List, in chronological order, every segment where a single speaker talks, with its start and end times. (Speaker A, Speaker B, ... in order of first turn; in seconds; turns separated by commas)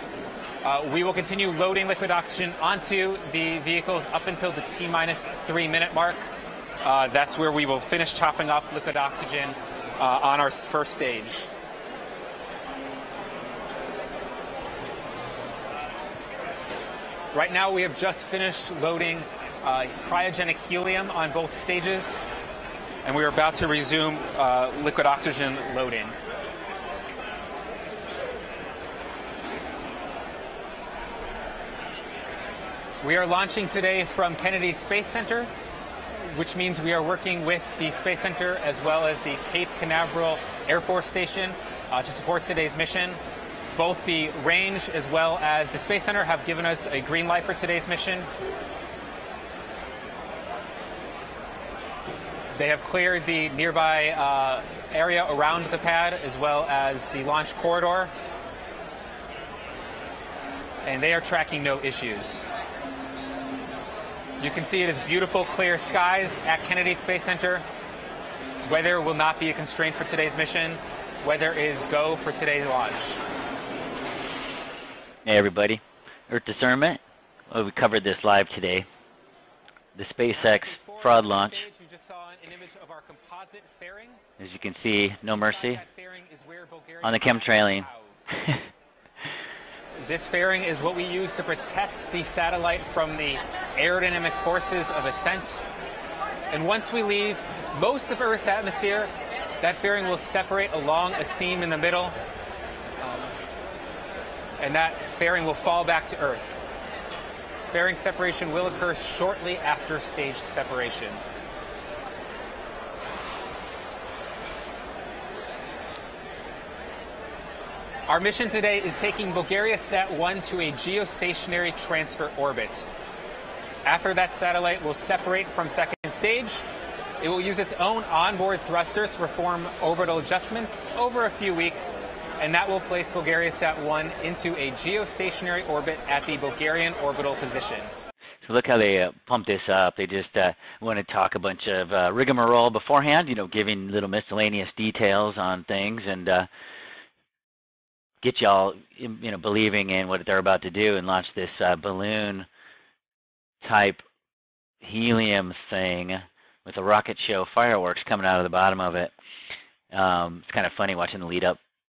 Speaker A: 0.6-6.2, Speaker A: 6.8-11.5, Speaker A: 17.3-22.2, Speaker A: 23.0-26.2, Speaker A: 33.0-35.5, Speaker A: 36.1-43.2, Speaker A: 43.7-48.3, Speaker A: 52.5-58.1, Speaker A: 60.8-62.5, Speaker A: 64.4-67.6, Speaker A: 68.6-73.2, Speaker B: 75.2-77.0, Speaker B: 77.5-78.9, Speaker B: 79.9-81.6, Speaker A: 80.3-84.2, Speaker B: 84.4-85.8, Speaker A: 85.3-88.4, Speaker B: 87.0-87.9, Speaker A: 90.0-95.6, Speaker A: 96.5-102.2, Speaker A: 103.0-103.3, Speaker A: 104.6-106.6, Speaker A: 107.7-111.2, Speaker A: 118.1-122.9, Speaker A: 123.8-126.6, Speaker A: 127.2-137.9, Speaker B: 138.4-146.5, Speaker B: 148.2-152.5, Speaker B: 153.6-154.0, Speaker B: 154.8-159.1, Speaker B: 159.9-161.6